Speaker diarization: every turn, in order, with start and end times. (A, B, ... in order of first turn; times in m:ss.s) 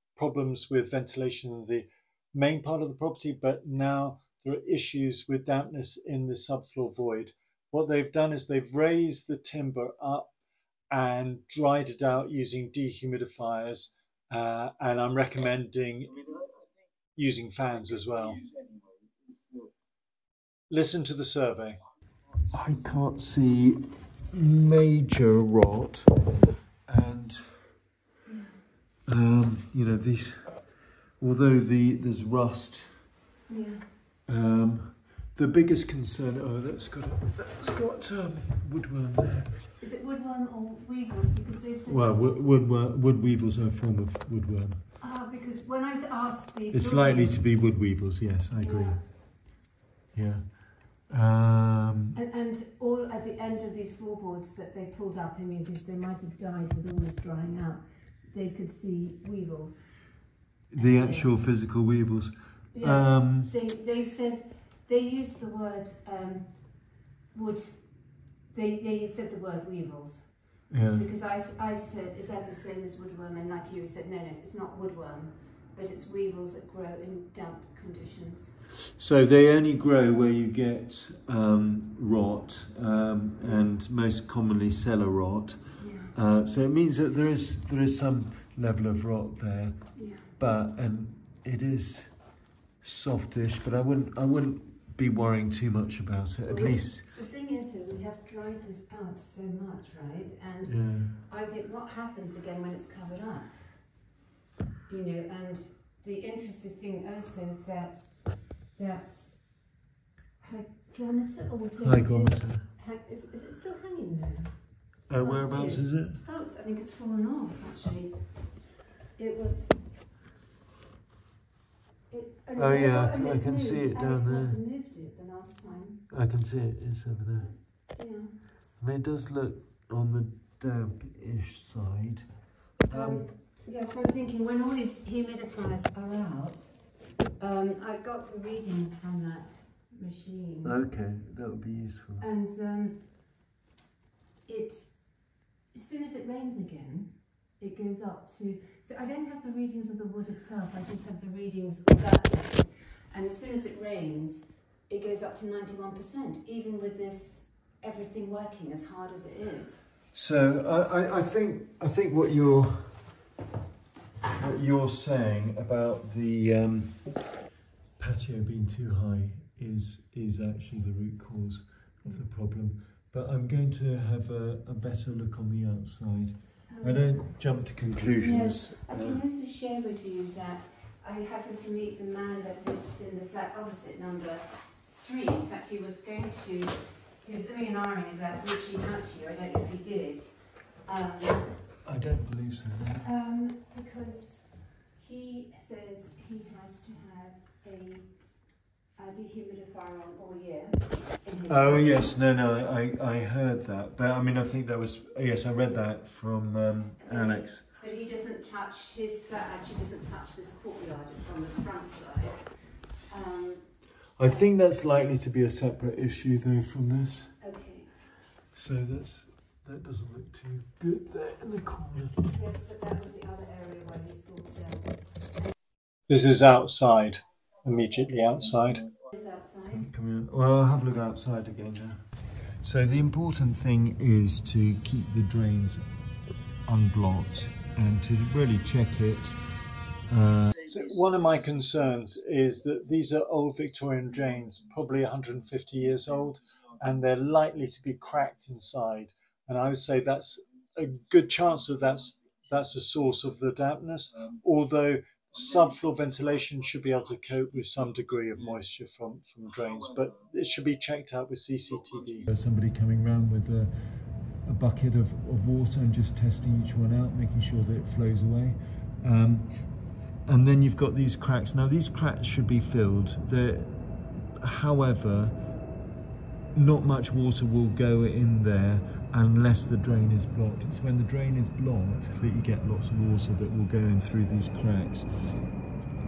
0:00.2-0:10.3 A
0:10.9-0:16.2 A
0:17.2-0:18.4 A
0:20.7-0:21.8 A
0:22.5-0:26.1 B
0:26.9-0:27.8 B
0:28.3-0:28.6 C
0:29.1-0:33.1 B
0:33.5-0:33.9 C
0:34.3-0:39.6 B
0:39.8-0:42.4 C
0:41.9-0:44.8 B
0:45.0-0:47.5 C
0:46.7-0:49.5 B
0:48.6-0:49.0 C
0:50.1-0:52.2 B
0:52.2-1:01.4 C
1:00.7-1:03.5 B
1:02.7-1:18.6 C
1:10.7-1:11.1 B
1:19.0-1:37.0 B
1:23.4-1:23.7 C
1:25.8-1:26.1 C
1:30.0-1:30.3 C
1:36.5-1:44.1 C
1:40.6-1:41.1 B
1:44.9-1:49.8 C
1:50.4-1:58.6 C
1:51.8-1:52.6 B
1:55.1-1:56.2 B
1:59.2-1:59.9 C
2:02.1-2:06.0 C
2:02.6-2:04.6 B
2:06.1-2:07.6 B
2:07.4-2:08.4 C
2:08.8-2:12.3 B
2:12.9-2:13.3 B
2:12.9-2:20.8 C
2:20.6-2:22.3 B
2:22.2-2:23.2 C
2:24.4-2:39.8 C
2:40.1-2:43.2 B
2:44.4-2:47.3 B
2:48.0-2:59.2 B
2:56.7-2:57.4 C
2:58.2-3:11.7 C
3:11.8-3:13.1 B
3:13.0-3:22.1 C
3:21.5-3:27.6 B
3:27.0-3:34.5 C
3:34.2-3:37.5 B
3:37.4-3:37.9 C
3:38.5-3:42.4 B
3:42.3-3:45.5 C
3:46.1-3:48.9 A
3:49.1-3:49.9 C
3:49.7-3:56.0 B
3:56.7-3:59.4 B
4:00.0-4:00.6 B
4:00.7-4:22.3 A
4:22.3-4:35.4 B
4:36.5-4:45.4 B